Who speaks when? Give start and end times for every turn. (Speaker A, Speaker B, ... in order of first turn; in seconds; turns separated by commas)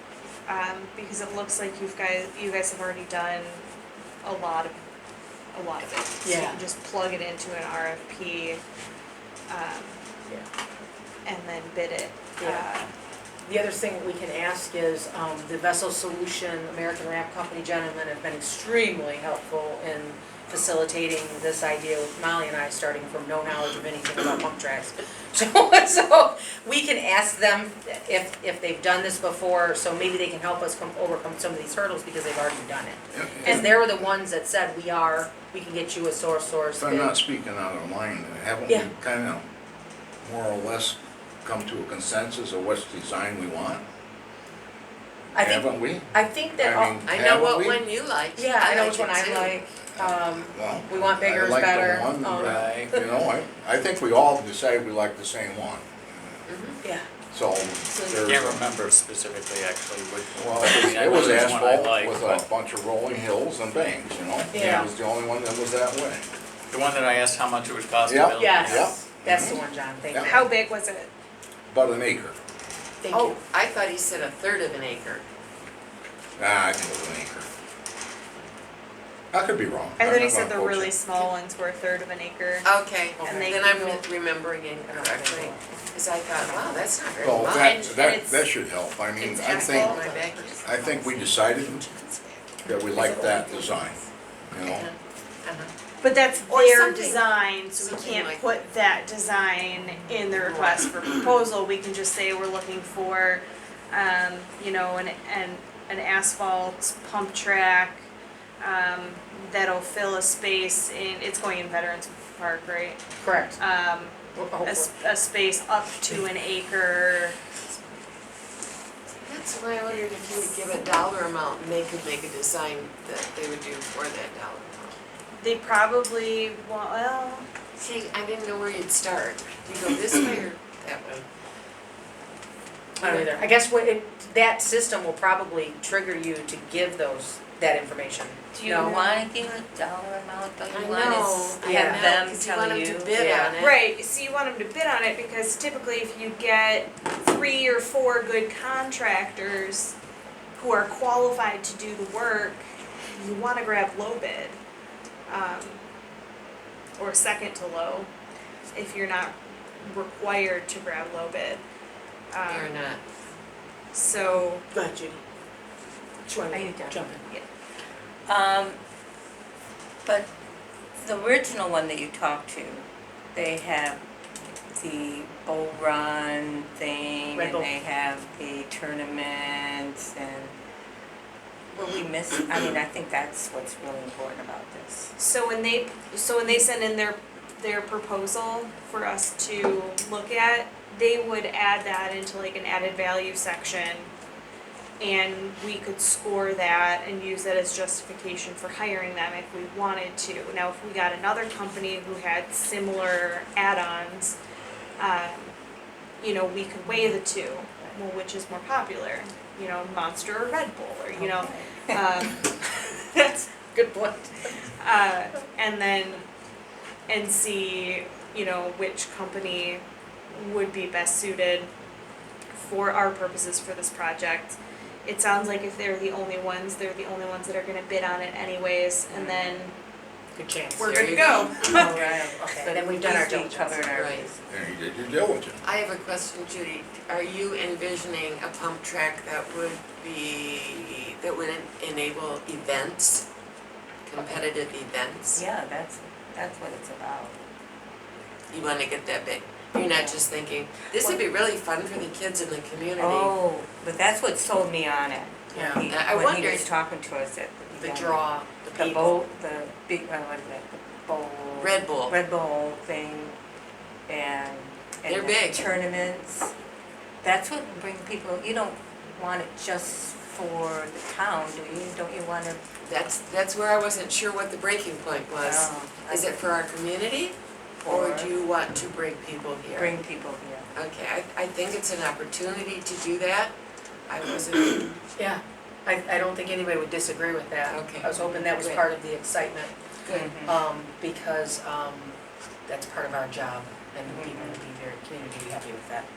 Speaker A: 0.5-3.7, Speaker A: 4.2-4.8, Speaker A: 5.5-8.6, Speaker B: 6.2-6.6, Speaker A: 9.5-10.0, Speaker A: 11.2-12.9, Speaker B: 12.4-12.7, Speaker B: 13.4-37.2, Speaker C: 33.1-33.7, Speaker C: 36.8-39.5, Speaker C: 40.2-43.8, Speaker B: 45.3-47.1, Speaker C: 45.4-47.8, Speaker D: 47.0-49.7, Speaker B: 48.4-53.1, Speaker C: 49.9-56.5, Speaker E: 52.3-53.0, Speaker D: 56.5-56.8, Speaker C: 57.3-58.7, Speaker E: 58.1-62.4, Speaker C: 60.4-66.3, Speaker B: 64.5-64.9, Speaker E: 66.7-69.0, Speaker C: 68.0-70.4, Speaker B: 68.4-70.5, Speaker A: 70.2-71.1, Speaker C: 71.7-72.3, Speaker B: 73.0-73.4, Speaker D: 73.1-75.2, Speaker C: 76.4-77.5, Speaker C: 79.3-80.9, Speaker A: 80.0-84.0, Speaker D: 82.6-88.2, Speaker B: 83.2-84.0, Speaker B: 84.9-85.8, Speaker B: 86.5-86.8, Speaker C: 87.2-90.0, Speaker B: 87.6-88.5, Speaker D: 89.2-91.0, Speaker B: 89.3-93.9, Speaker C: 90.7-91.9, Speaker C: 92.6-94.0, Speaker C: 94.5-94.9, Speaker A: 96.0-108.1, Speaker D: 96.3-98.6, Speaker A: 108.6-113.0, Speaker B: 113.2-113.6, Speaker A: 113.6-117.4, Speaker B: 114.3-114.9, Speaker D: 119.2-125.0, Speaker A: 125.4-127.5, Speaker D: 127.8-131.2, Speaker B: 133.0-139.0, Speaker D: 133.0-133.3, Speaker A: 138.6-139.3, Speaker F: 138.6-143.6, Speaker D: 140.7-143.8, Speaker B: 141.6-142.1, Speaker A: 143.6-150.0, Speaker A: 150.6-154.6, Speaker A: 155.3-155.8, Speaker A: 157.0-158.1, Speaker A: 158.7-161.6, Speaker A: 162.3-162.7, Speaker D: 162.5-163.0, Speaker A: 163.9-164.7, Speaker B: 164.7-165.2, Speaker B: 166.2-167.2, Speaker F: 166.5-167.1, Speaker F: 168.3-168.8, Speaker F: 170.0-170.3, Speaker F: 171.0-174.0, Speaker F: 174.7-180.5, Speaker B: 177.3-177.7, Speaker F: 181.7-185.1, Speaker A: 185.2-194.1, Speaker A: 195.0-204.4, Speaker A: 205.0-205.6, Speaker A: 206.2-213.5, Speaker F: 211.3-212.0, Speaker B: 213.7-214.7, Speaker A: 214.8-216.3, Speaker A: 217.1-221.7, Speaker A: 222.6-229.8, Speaker F: 229.1-229.5, Speaker B: 230.3-233.9, Speaker A: 230.8-231.9, Speaker D: 230.8-231.9, Speaker F: 231.8-234.4, Speaker D: 233.9-234.3, Speaker C: 234.5-235.6, Speaker D: 235.6-243.3, Speaker D: 244.1-245.4, Speaker F: 244.2-244.5, Speaker F: 245.3-247.4, Speaker D: 248.5-253.3, Speaker F: 249.9-250.2, Speaker F: 253.0-263.4, Speaker B: 255.6-255.8, Speaker D: 255.6-256.7, Speaker B: 257.8-259.2, Speaker D: 261.6-262.2, Speaker F: 264.1-266.5, Speaker D: 265.1-265.7, Speaker F: 267.2-272.6, Speaker D: 272.9-280.0, Speaker F: 275.4-276.4, Speaker F: 277.9-278.3, Speaker F: 279.7-280.7, Speaker D: 280.7-283.5, Speaker D: 284.1-285.0, Speaker B: 285.2-289.7, Speaker D: 287.7-288.8, Speaker D: 290.1-290.3, Speaker F: 290.1-290.6, Speaker B: 290.4-296.1, Speaker F: 294.1-294.6